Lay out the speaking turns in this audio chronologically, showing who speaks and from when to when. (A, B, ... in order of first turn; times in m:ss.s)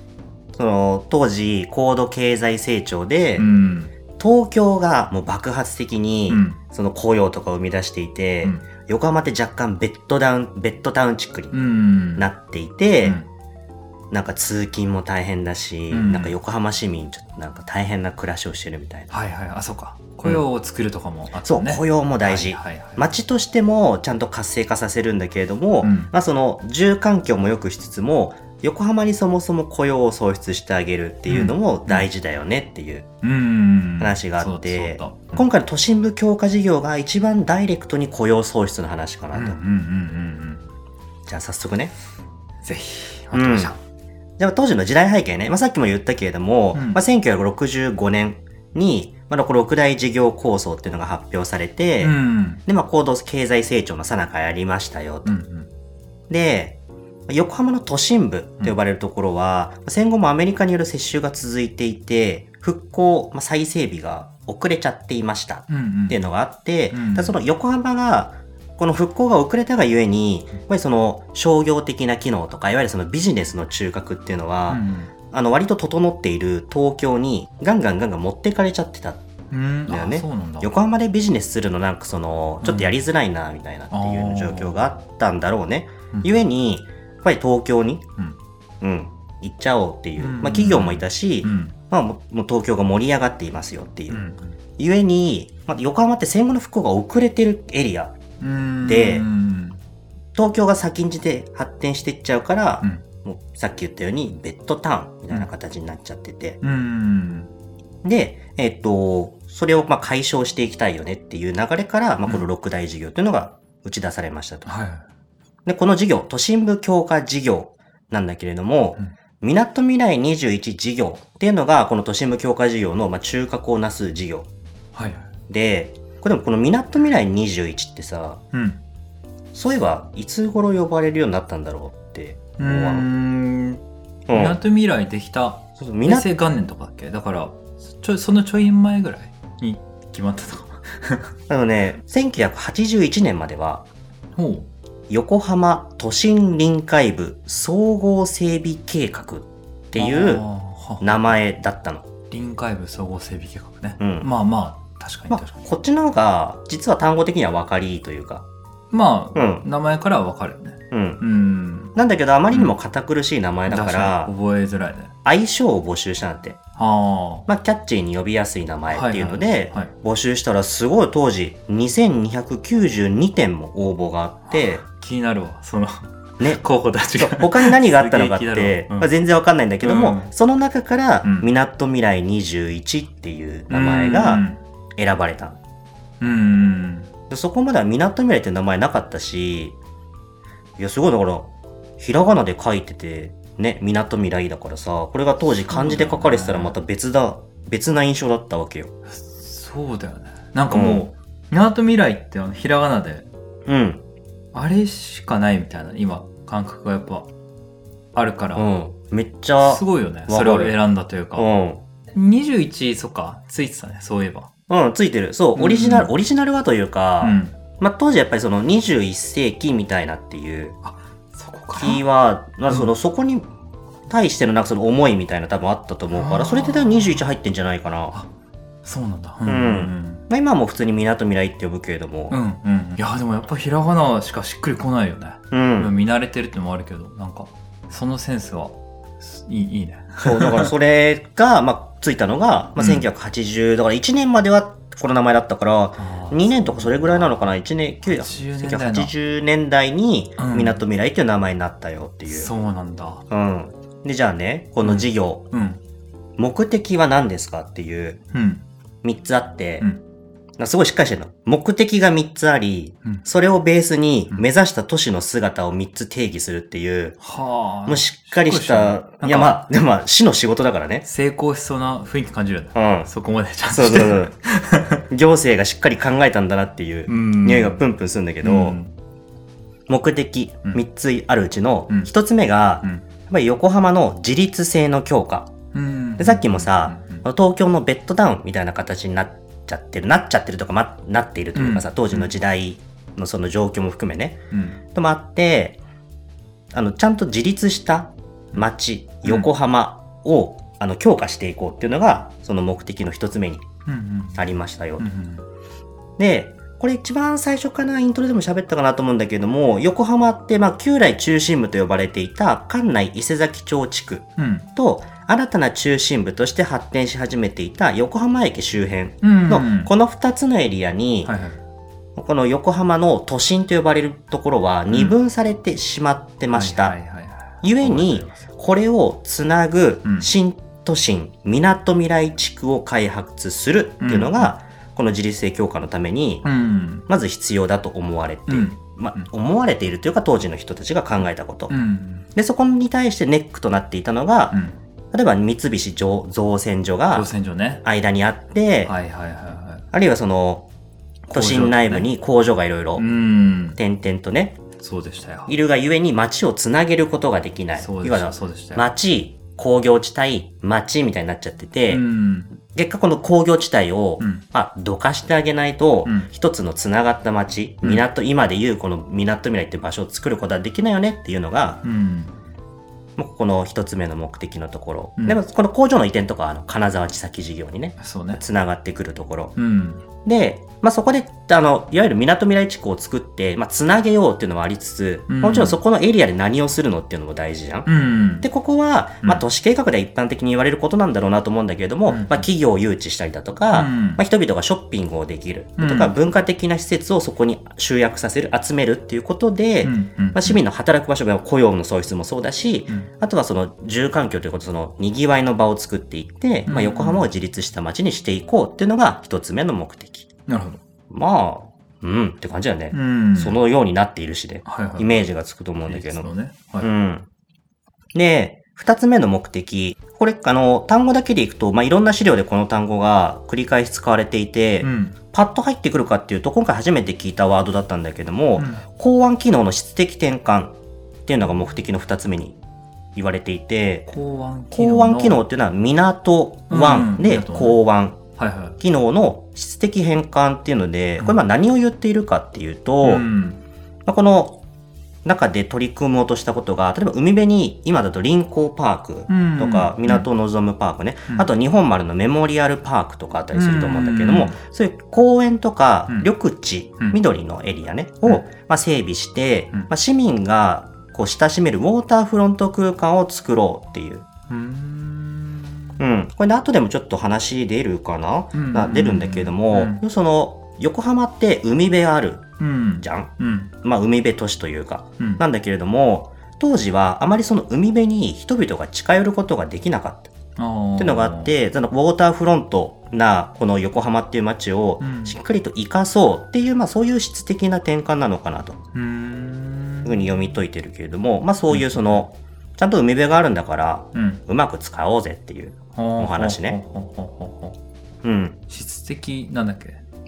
0:00.5-0:03.5 A
0:03.4-0:03.9 B
0:04.2-0:11.6 A
0:06.3-0:06.6 B
0:11.5-0:12.3 B
0:12.2-0:13.2 A
0:13.0-0:13.3 B
0:14.1-0:19.1 A
0:15.9-0:16.4 B
0:19.1-0:23.1 B
0:21.4-0:33.1 A
0:25.8-0:26.1 B
0:31.3-0:32.1 B
0:33.2-0:35.4 B
0:34.0-0:39.6 A
0:39.3-0:40.6 B
0:41.3-0:41.9 A
0:42.6-0:43.8 B
0:43.3-0:43.7 A
0:44.4-0:55.3 A
0:46.7-0:47.0 B
0:52.0-0:52.6 B
0:55.2-0:55.7 B
0:56.3-1:19.2 A
1:05.7-1:06.2 B
1:06.9-1:07.4 B
1:14.7-1:15.1 B
1:19.5-1:20.7 B
1:19.9-1:28.0 A
1:22.6-1:23.0 B
1:23.9-1:24.9 B
1:28.8-1:34.2 A
1:30.2-1:31.7 B
1:34.1-1:34.5 B
1:34.8-1:38.1 A
1:38.4-1:39.8 B
1:38.8-1:39.2 A
1:40.3-1:46.6 A
1:46.6-1:47.5 B
1:48.0-1:54.7 A
1:54.6-1:55.0 B
1:55.6-2:04.5 A
2:04.9-2:05.3 B
2:05.5-2:08.4 A
2:08.5-2:08.8 B
2:09.5-2:13.0 A
2:12.6-2:21.3 B
2:14.3-2:14.6 A
2:15.8-2:16.3 A
2:21.5-2:23.8 A
2:24.3-2:24.7 B
2:25.1-2:30.4 A
2:29.9-2:31.3 B
2:31.0-2:32.1 A
2:32.3-2:35.6 B
2:34.0-2:34.3 A
2:35.3-2:38.4 A
2:38.9-2:42.0 B
2:39.3-2:39.6 A
2:40.9-2:41.2 A
2:42.0-2:44.3 A
2:43.7-2:45.1 B
2:45.2-2:46.6 A
2:46.8-2:47.5 B
2:47.5-2:54.8 A
2:48.9-2:49.9 B
2:54.5-2:59.1 B
2:57.2-3:04.4 A
2:59.8-3:00.3 B
3:01.2-3:01.5 B
3:03.7-3:04.6 B
3:05.0-3:05.6 A
3:06.2-3:07.1 B
3:07.3-3:09.8 A
3:10.8-3:18.9 A
3:15.5-3:16.7 B
3:19.1-3:23.3 B
3:20.7-3:21.0 A
3:23.6-3:24.0 A
3:24.5-3:27.3 B
3:28.1-3:28.7 B
3:28.6-3:30.7 A
3:29.6-3:31.5 B
3:31.4-3:31.8 A
3:32.1-3:34.5 B
3:34.7-3:40.8 A
3:35.6-3:36.1 B
3:37.2-3:37.6 B
3:40.8-3:42.0 B
3:41.8-3:43.5 A
3:44.1-3:48.1 A
3:46.1-3:47.3 B
3:48.8-3:50.2 B
3:49.4-3:52.4 A
3:52.3-4:00.7 B
3:55.5-3:55.9 A
4:00.2-4:12.5 A
4:02.8-4:03.1 B
4:06.0-4:09.1 B
4:10.4-4:10.8 B
4:12.3-4:13.2 B
4:13.3-4:15.4 A
4:14.8-4:15.8 B
4:16.4-4:18.2 A
4:18.3-4:18.6 B
4:19.0-4:19.9 A
4:20.6-4:27.2 A
4:27.2-4:29.6 B
4:27.8-4:31.0 A
4:31.0-4:35.0 B
4:32.7-4:33.1 A
4:33.7-4:34.3 A
4:35.1-4:38.8 A
4:37.1-4:37.8 B
4:38.4-4:38.9 B
4:39.9-4:45.5 A
4:45.7-4:47.2 B
4:46.2-4:54.4 A
4:51.5-4:52.3 B
4:54.5-4:54.8 B
4:54.9-4:55.8 A
4:56.7-5:03.6 A
5:03.8-5:04.4 B
5:04.3-5:05.1 A
5:05.0-5:05.4 B
5:06.2-5:21.3 A
5:14.4-5:14.7 B
5:19.2-5:19.9 B
5:21.2-5:21.6 B
5:22.2-5:27.0 A
5:24.9-5:25.2 B
5:26.5-5:28.4 B
5:27.6-5:36.4 A
5:30.0-5:30.3 B
5:34.0-5:34.5 B
5:36.4-5:37.1 B
5:37.1-5:41.7 A
5:38.5-5:39.3 B
5:41.7-5:42.3 B
5:42.3-5:44.6 A
5:44.5-5:44.8 B
5:45.1-5:47.3 A
5:47.1-5:47.8 B
5:47.8-5:48.9 A
5:48.8-5:49.8 B
5:49.9-5:50.7 A
5:51.3-5:53.0 A
5:51.3-5:52.1 B
5:53.0-5:53.8 B
5:53.8-5:54.6 A
5:54.8-5:55.5 B
5:55.5-6:02.0 A
5:57.8-5:58.9 B
6:01.9-6:02.5 B
6:02.6-6:11.8 A
6:04.2-6:04.4 B
6:06.0-6:06.3 B
6:11.8-6:12.3 B
6:13.2-6:19.5 A
6:18.0-6:18.4 B
6:19.6-6:20.0 B
6:20.2-6:27.9 A
6:25.3-6:25.8 B
6:27.8-6:28.5 B
6:28.4-6:50.3 A
6:32.1-6:32.5 B
6:33.7-6:34.2 B
6:35.8-6:36.1 B
6:39.8-6:40.6 B
6:46.6-6:47.3 B
6:50.5-6:50.8 B
6:51.1-6:56.3 A
6:52.9-6:53.6 B
6:54.6-6:55.2 B
6:55.8-6:56.9 B
6:56.8-6:57.3 A
6:58.1-7:10.7 A
7:04.8-7:05.2 B
7:08.6-7:08.8 B
7:11.2-7:12.6 A
7:13.1-7:14.1 A
7:14.1-7:15.4 B
7:14.7-7:18.2 A
7:16.7-7:17.8 B
7:18.4-7:18.8 B
7:18.8-7:23.2 A
7:23.0-7:23.6 B
7:24.0-7:24.6 A
7:25.2-7:44.2 A
7:29.3-7:30.3 B
7:33.5-7:34.6 B
7:44.5-7:46.0 B
7:46.0-7:52.5 A
7:48.5-7:50.0 B
7:52.6-7:53.7 B
7:53.0-7:53.3 A
7:53.8-8:00.3 A
8:00.6-8:01.5 B
8:01.0-8:08.8 A
8:05.0-8:05.4 B
8:08.9-8:10.6 B
8:10.0-8:16.8 A
8:11.7-8:12.2 B
8:14.1-8:14.4 B
8:15.9-8:17.8 B
8:18.2-8:18.6 A
8:18.7-8:20.0 B